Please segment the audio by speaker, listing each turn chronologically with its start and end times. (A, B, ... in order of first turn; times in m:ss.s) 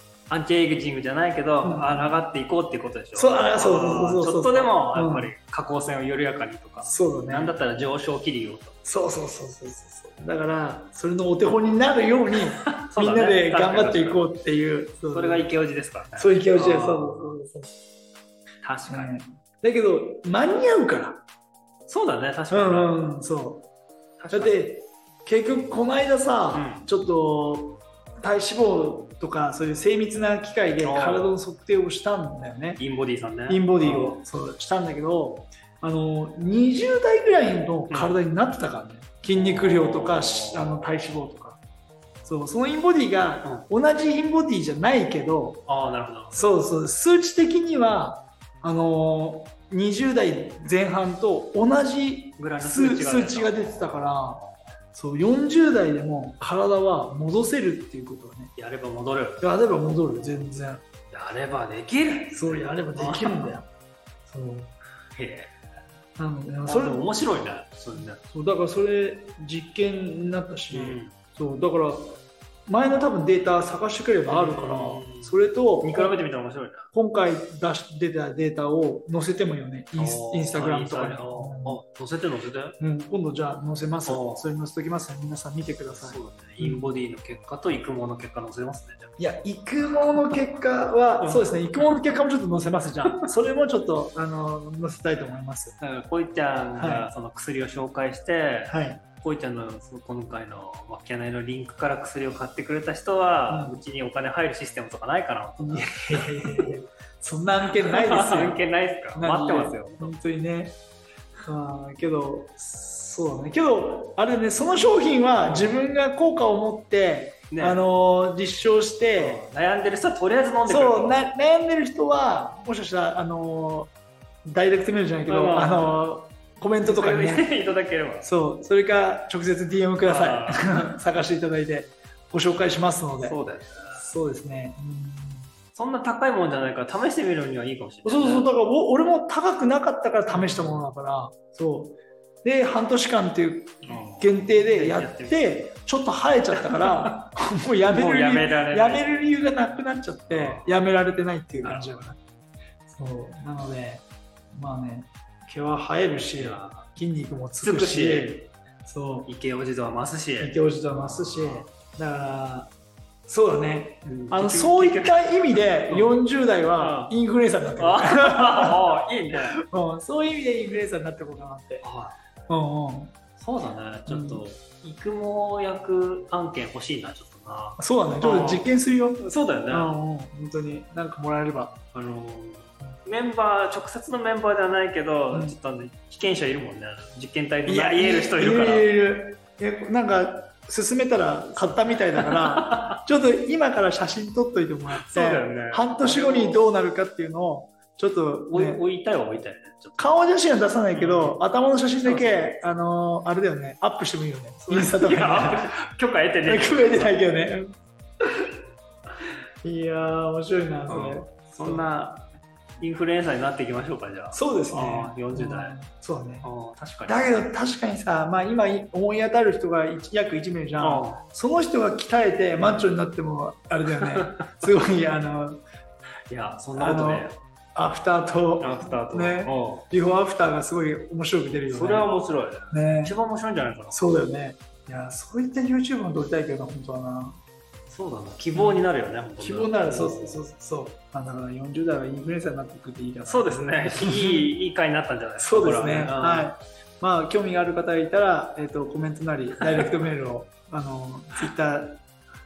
0:00.3-0:08.8 A
0:01.6-0:02.2 B
0:03.1-0:05.3 B
0:06.8-0:07.5 B
0:08.8-0:15.5 B
0:12.7-0:14.3 A
0:15.1-0:17.4 A
0:16.2-0:17.8 B
0:18.6-0:19.2 A
0:18.9-0:21.2 B
0:21.9-0:23.0 A
0:22.5-0:23.7 B
0:24.2-0:24.6 A
0:24.3-0:32.8 B
0:26.5-0:26.9 A
0:30.8-0:31.3 A
0:32.8-0:34.2 A
0:33.5-0:41.6 B
0:37.9-0:38.2 A
0:39.3-0:40.7 A
0:42.2-0:45.6 B
0:45.7-0:46.4 A
0:46.3-0:58.5 B
0:52.4-0:54.2 A
0:58.6-0:59.4 A
0:59.4-1:00.8 B
1:01.1-1:03.6 A
1:02.3-1:03.7 B
1:04.3-1:04.7 B
1:05.1-1:05.5 A
1:06.2-1:07.1 B
1:06.6-1:08.2 A
1:08.0-1:16.1 B
1:10.7-1:11.1 A
1:14.3-1:16.9 A
1:16.9-1:21.8 B
1:20.0-1:22.8 A
1:22.8-1:26.9 B
1:24.0-1:24.4 A
1:26.0-1:29.1 A
1:29.2-1:35.8 B
1:29.8-1:30.2 A
1:31.2-1:32.0 A
1:35.8-1:46.7 A
1:36.8-1:37.1 B
1:38.7-1:39.0 B
1:43.5-1:43.8 B
1:45.6-1:48.6 B
1:47.8-1:50.1 A
1:49.1-1:50.8 B
1:51.4-1:59.4 B
1:55.4-1:55.8 A
1:57.5-1:57.8 A
1:59.2-2:01.2 A
2:00.6-2:03.9 B
2:04.4-2:07.5 B
2:05.3-2:06.0 A
2:06.8-2:08.3 A
2:08.2-2:13.4 B
2:10.0-2:10.8 A
2:13.2-2:14.1 A
2:14.0-2:15.5 B
2:15.7-2:18.5 A
2:18.0-2:32.2 B
2:20.3-2:20.8 A
2:23.8-2:25.6 A
2:26.6-2:27.2 A
2:27.9-2:29.3 A
2:30.3-2:30.8 A
2:31.6-2:31.9 A
2:32.9-2:39.3 B
2:36.4-2:36.9 A
2:37.6-2:38.5 A
2:39.2-2:41.7 A
2:40.4-2:42.7 B
2:43.3-2:48.8 B
2:44.0-2:46.2 A
2:46.8-2:47.1 A
2:47.8-2:49.6 A
2:49.6-2:51.8 B
2:51.8-2:52.2 A
2:52.5-2:53.1 B
2:53.4-2:58.7 A
2:54.1-2:54.4 B
2:57.8-3:01.8 B
2:59.2-2:59.9 A
3:01.9-3:08.9 A
3:05.3-3:05.6 B
3:07.6-3:18.8 B
3:12.2-3:13.0 A
3:14.9-3:16.6 A
3:18.5-3:20.2 A
3:20.0-3:25.8 B
3:20.9-3:21.4 A
3:22.0-3:22.6 A
3:24.7-3:27.2 A
3:26.4-3:27.7 B
3:29.6-3:31.9 B
3:30.9-3:32.3 A
3:32.8-3:35.8 A
3:34.3-3:36.5 B
3:36.4-3:37.3 A
3:37.1-3:45.6 B
3:40.8-3:41.2 A
3:44.0-3:44.5 A
3:46.3-3:47.4 A
3:46.8-3:52.1 B
3:48.6-3:49.8 A
3:51.7-3:54.0 A
3:52.7-3:53.2 B
3:53.9-3:57.4 B
3:57.9-4:00.4 A
3:58.5-3:58.8 B
3:59.4-4:04.5 B
4:03.2-4:06.5 A
4:05.4-4:12.0 B